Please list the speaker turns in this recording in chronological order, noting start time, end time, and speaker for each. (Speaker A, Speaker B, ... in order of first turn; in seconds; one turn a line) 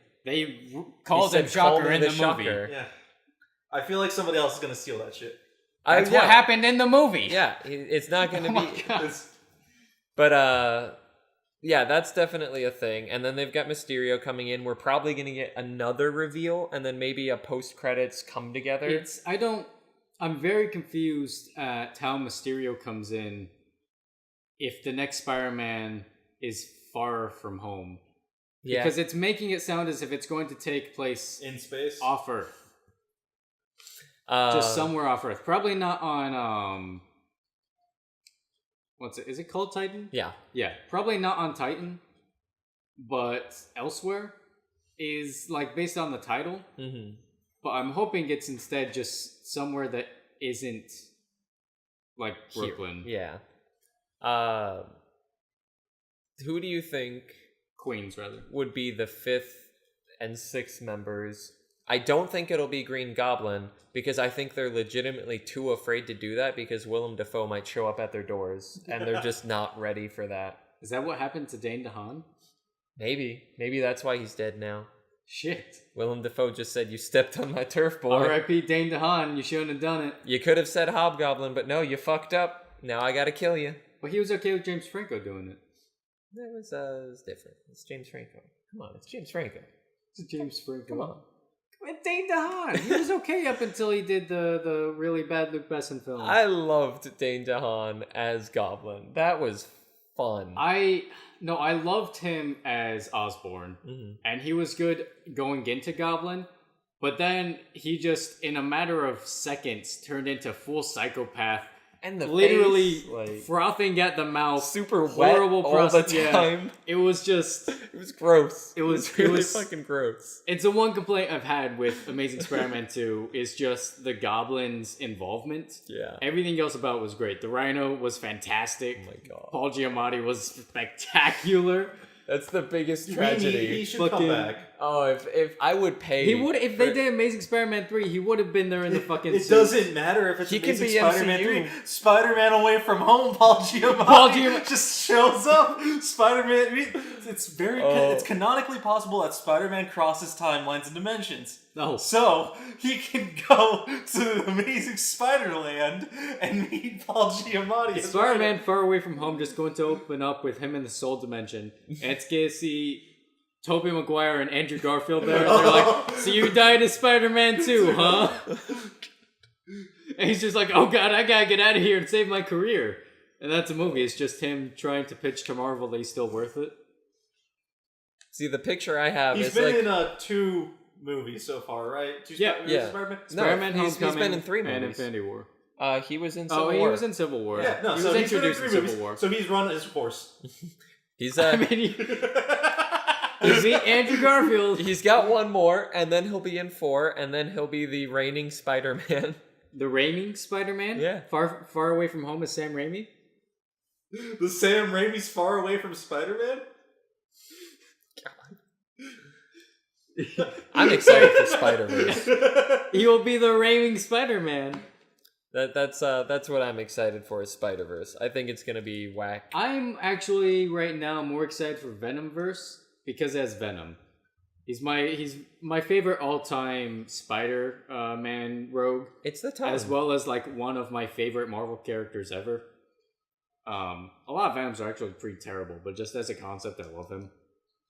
Speaker A: 0.2-2.6
Speaker B: 1.1-2.7
Speaker C: 3.7-5.4
Speaker B: 5.8-6.4
Speaker A: 5.9-7.4
Speaker B: 7.2-9.0
Speaker A: 8.2-9.1
Speaker C: 8.9-9.3
Speaker B: 10.2-10.9
Speaker B: 11.6-19.1
Speaker A: 18.8-23.5
Speaker A: 24.6-28.0
Speaker B: 28.6-28.9
Speaker A: 28.7-31.4
Speaker C: 31.4-32.1
Speaker A: 32.0-32.5
Speaker B: 34.3-34.9
Speaker A: 34.5-37.0
Speaker A: 39.0-42.0
Speaker A: 43.0-44.3
Speaker A: 45.0-46.7
Speaker B: 46.8-47.2
Speaker A: 47.6-51.1
Speaker A: 52.2-53.1
Speaker B: 52.5-53.4
Speaker B: 54.2-54.9
Speaker B: 56.4-57.4
Speaker A: 57.8-58.5
Speaker B: 58.5-59.7
Speaker B: 60.2-70.6
Speaker A: 70.8-72.2
Speaker B: 73.0-74.9
Speaker A: 75.3-75.8
Speaker B: 75.9-78.4
Speaker A: 78.1-80.2
Speaker B: 80.2-83.8
Speaker A: 84.0-85.6
Speaker B: 86.3-89.7
Speaker A: 90.1-91.1
Speaker B: 90.9-91.2
Speaker A: 91.8-96.4
Speaker B: 96.2-100.6
Speaker A: 100.5-106.5
Speaker B: 103.8-104.2
Speaker A: 107.0-117.8
Speaker B: 112.0-113.5
Speaker B: 114.5-116.7
Speaker B: 117.7-120.4
Speaker A: 118.8-119.7
Speaker A: 120.4-131.9
Speaker B: 125.9-126.2
Speaker B: 129.0-129.6
Speaker B: 132.3-133.9
Speaker C: 133.1-134.7
Speaker A: 134.0-134.5
Speaker B: 134.8-137.0
Speaker A: 136.2-139.8
Speaker C: 138.9-158.6
Speaker B: 140.4-141.7
Speaker A: 143.9-144.7
Speaker B: 147.8-148.3
Speaker A: 151.7-152.1
Speaker A: 157.9-163.1
Speaker A: 163.6-168.5
Speaker C: 165.2-166.5
Speaker C: 167.6-168.3
Speaker A: 170.1-176.7
Speaker B: 178.3-179.9
Speaker C: 179.3-183.4
Speaker A: 182.4-182.6
Speaker B: 182.6-185.1
Speaker A: 183.3-185.5
Speaker B: 185.8-187.7
Speaker A: 186.5-189.2
Speaker C: 187.5-190.3
Speaker B: 190.7-191.7
Speaker A: 191.3-192.3
Speaker C: 192.0-194.1
Speaker A: 193.4-194.9
Speaker B: 194.7-199.4
Speaker A: 199.7-203.1
Speaker B: 200.9-201.2
Speaker C: 204.1-206.6
Speaker B: 208.2-208.6
Speaker A: 210.2-212.3
Speaker C: 210.4-212.9
Speaker B: 210.7-212.3
Speaker A: 212.9-214.8
Speaker B: 215.5-219.5
Speaker A: 219.5-224.0
Speaker A: 224.7-229.1
Speaker B: 229.2-230.0
Speaker A: 229.6-232.6
Speaker A: 233.7-237.3